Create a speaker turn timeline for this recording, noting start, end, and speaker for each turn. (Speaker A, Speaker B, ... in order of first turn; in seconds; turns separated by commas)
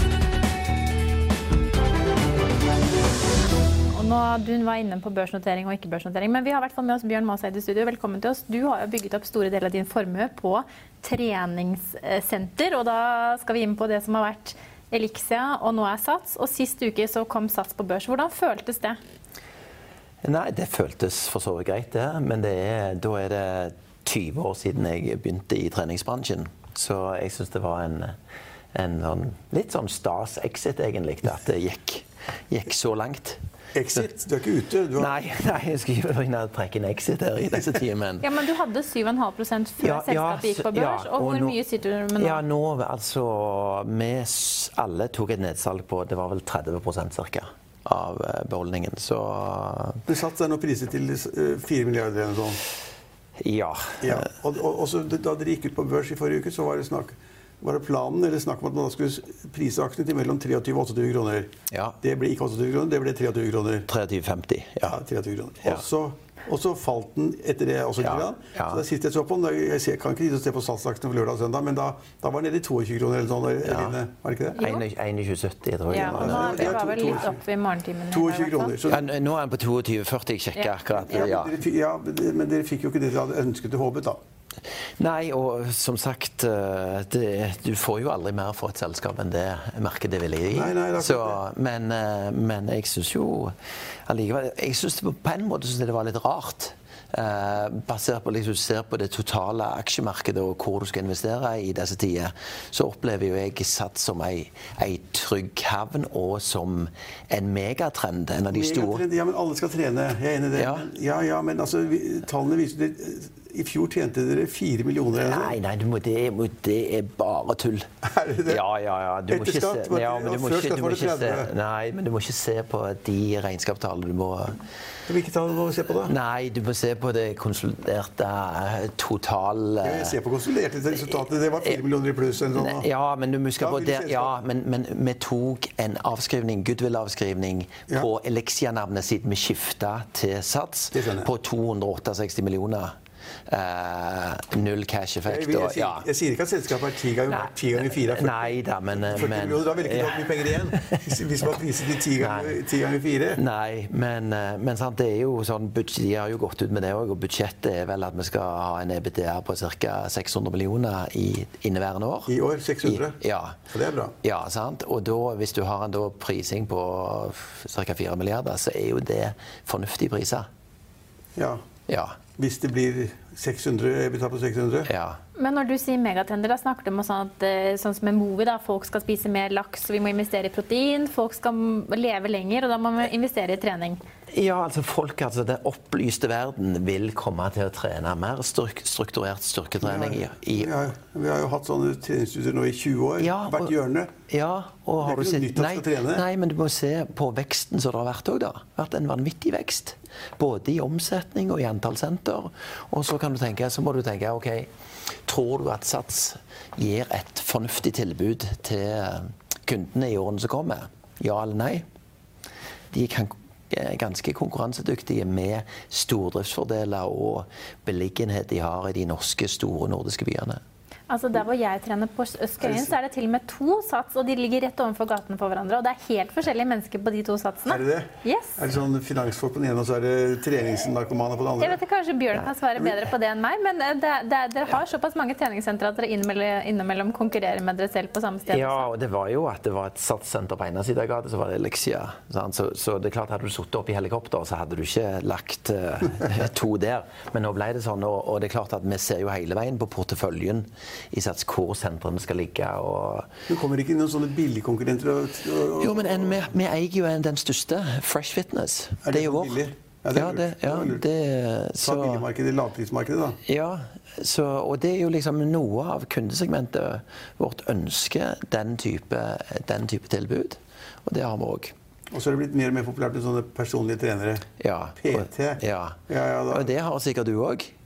Speaker A: 3.9-19.0, Speaker B: 20.2-28.1, Speaker B: 28.7-33.4, Speaker C: 33.8-35.2, Speaker B: 35.0-38.2, Speaker A: 38.2-42.4, Speaker B: 39.8-41.6, Speaker B: 42.2-50.0, Speaker C: 50.1-52.6, Speaker B: 53.4-54.3, Speaker C: 54.0-61.5, Speaker B: 61.7-62.0, Speaker C: 62.0-63.9, Speaker B: 63.9-65.0, Speaker C: 64.9-74.6, Speaker B: 68.0-68.8, Speaker B: 73.6-74.0, Speaker B: 74.6-76.8, Speaker A: 74.6-74.8, Speaker A: 75.9-78.7, Speaker C: 75.9-77.4, Speaker C: 78.1-79.1, Speaker B: 78.9-81.6, Speaker C: 81.0-84.2, Speaker B: 85.0-93.5, Speaker C: 90.5-91.4, Speaker B: 94.1-109.0, Speaker C: 108.5-115.6, Speaker B: 110.5-110.9, Speaker B: 115.2-117.9, Speaker C: 118.0-118.6, Speaker B: 118.5-124.6, Speaker C: 119.3-121.5, Speaker C: 125.1-126.1, Speaker B: 126.0-130.2, Speaker C: 129.8-132.8, Speaker B: 131.0-131.8, Speaker B: 132.5-142.9, Speaker C: 133.6-134.3, Speaker C: 140.9-141.3, Speaker B: 143.5-146.1, Speaker C: 145.3-153.4, Speaker B: 147.3-151.6, Speaker B: 152.2-152.6, Speaker B: 153.3-163.6, Speaker C: 162.3-163.2, Speaker C: 163.7-164.2, Speaker B: 164.2-170.5, Speaker C: 171.4-171.6, Speaker B: 171.9-172.2, Speaker C: 172.4-174.9, Speaker B: 174.9-175.2, Speaker A: 175.4-184.0, Speaker B: 184.3-190.8, Speaker C: 189.8-194.1, Speaker B: 193.2-193.7, Speaker B: 194.3-204.7, Speaker C: 195.0-196.2, Speaker B: 205.3-211.9, Speaker B: 212.9-220.6, Speaker A: 221.1-228.6, Speaker C: 222.6-222.9, Speaker C: 227.7-231.8, Speaker A: 231.6-238.9, Speaker B: 238.5-253.3, Speaker C: 253.5-256.5, Speaker B: 255.8-259.6, Speaker C: 259.0-261.0, Speaker B: 260.1-262.2, Speaker C: 261.8-263.4, Speaker B: 263.4-271.7, Speaker C: 272.1-274.5, Speaker B: 274.6-277.7, Speaker C: 275.0-276.7